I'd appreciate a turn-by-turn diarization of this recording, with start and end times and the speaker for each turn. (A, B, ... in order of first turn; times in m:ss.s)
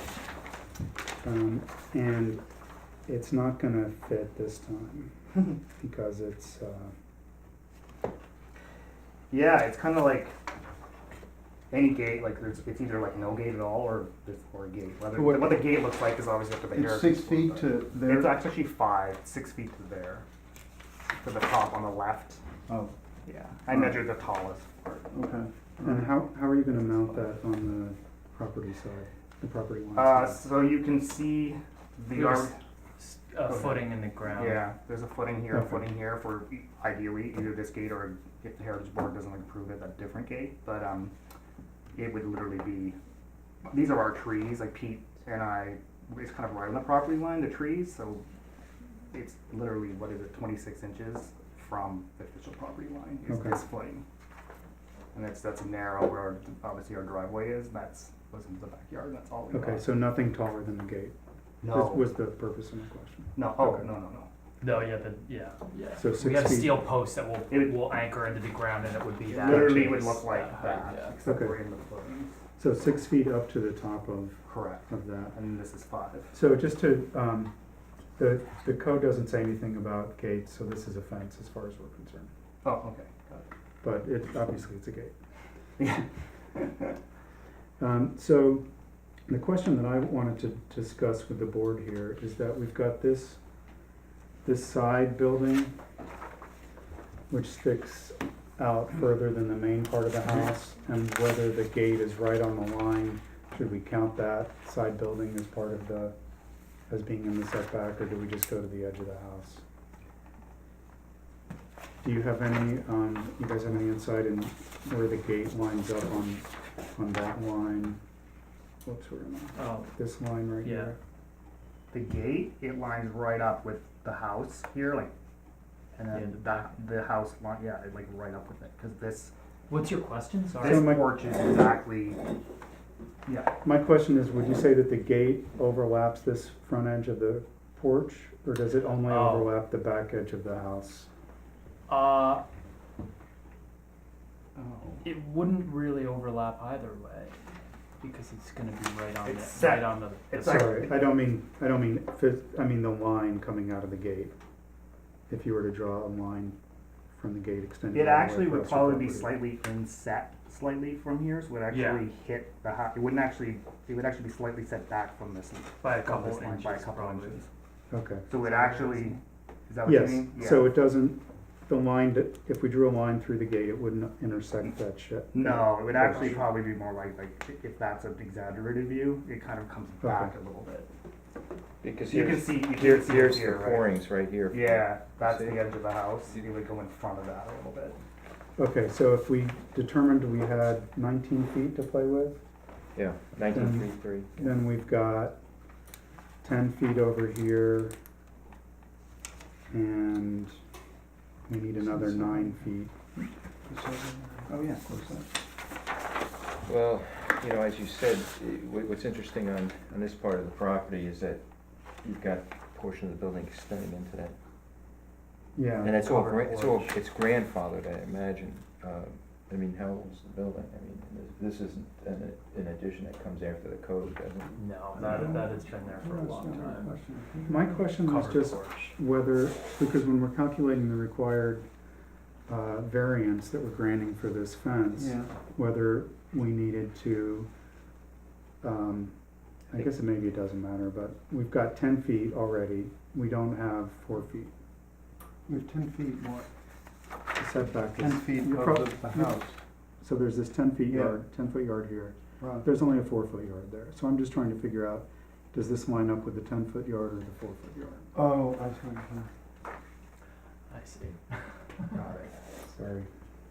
0:01.2-0:02.4 A
0:03.1-0:06.9 A
0:09.3-0:10.3 B
0:11.7-0:20.2 B
0:15.1-0:15.7 C
0:16.7-0:18.4 C
0:21.2-0:22.4 B
0:23.2-0:25.1 B
0:25.1-0:25.5 C
0:25.8-0:30.4 A
0:29.9-0:32.5 B
0:32.1-0:34.7 D
0:33.4-0:41.1 B
0:35.5-0:35.8 A
0:41.9-0:43.0 B
0:43.7-0:48.2 B
0:49.1-0:54.0 B
0:53.3-0:53.6 A
0:55.1-0:59.9 B
0:59.5-1:01.1 A
1:01.6-1:02.1 B
1:01.7-1:03.9 A
1:03.3-1:04.3 B
1:04.6-1:11.2 D
1:06.0-1:06.9 A
1:07.5-1:07.9 B
1:09.2-1:12.3 B
1:09.4-1:10.0 A
1:11.2-1:11.6 A
1:12.6-1:15.3 A
1:14.4-1:16.3 B
1:16.3-1:17.5 A
1:18.2-1:22.3 A
1:22.6-1:23.4 B
1:23.8-1:25.1 A
1:25.8-1:26.0 B
1:27.8-1:28.6 A
1:29.3-1:33.4 A
1:34.4-1:35.7 A
1:37.3-1:46.1 A
1:46.9-1:49.6 A
1:52.0-1:58.0 A
1:58.8-2:01.0 A
1:59.5-1:59.9 D
2:00.6-2:00.9 D
2:01.9-2:05.1 B
2:05.9-2:09.3 B
2:06.1-2:06.7 D
2:09.7-2:11.0 D
2:10.6-2:12.2 B
2:10.6-2:11.2 A
2:13.2-2:13.5 B
2:13.6-2:21.1 A
2:19.0-2:19.5 D
2:21.9-2:22.4 D
2:24.6-2:25.0 B
2:25.0-2:27.4 D
2:28.0-2:30.8 D
2:29.2-2:31.1 B
2:30.4-2:34.3 A
2:35.3-2:36.6 A
2:37.1-2:39.4 A
2:37.9-2:47.5 B
2:41.7-2:42.1 D
2:45.8-2:47.4 D
2:47.9-2:48.3 A
2:48.3-2:50.7 B
2:48.4-2:49.2 D
2:49.8-2:56.4 A
2:55.3-3:00.9 B
3:00.0-3:00.3 A
3:01.8-3:05.7 E
3:02.1-3:03.9 B
3:04.5-3:08.0 B
3:08.6-3:12.4 A
3:12.9-3:14.3 E
3:13.5-3:15.4 A
3:16.4-3:18.0 A
3:19.7-3:20.6 A
3:21.5-3:22.9 A
3:21.8-3:25.3 C
3:24.5-3:24.8 B
3:26.6-3:31.4 E
3:32.0-3:34.4 E
3:35.5-3:36.0 A
3:35.8-3:45.0 E
3:36.0-3:36.8 B
3:44.5-3:46.9 D
3:44.9-3:47.8 C
3:47.5-3:51.6 A
3:48.0-3:48.9 D
3:52.5-3:57.5 A
3:55.0-3:55.3 C
3:58.6-3:59.1 A
3:59.7-4:04.5 A
4:05.5-4:06.5 C
4:07.4-4:09.4 A
4:07.9-4:09.6 C
4:10.0-4:18.1 A
4:10.9-4:11.2 C
4:18.1-4:19.3 C
4:20.7-4:21.9 D
4:21.9-4:23.1 A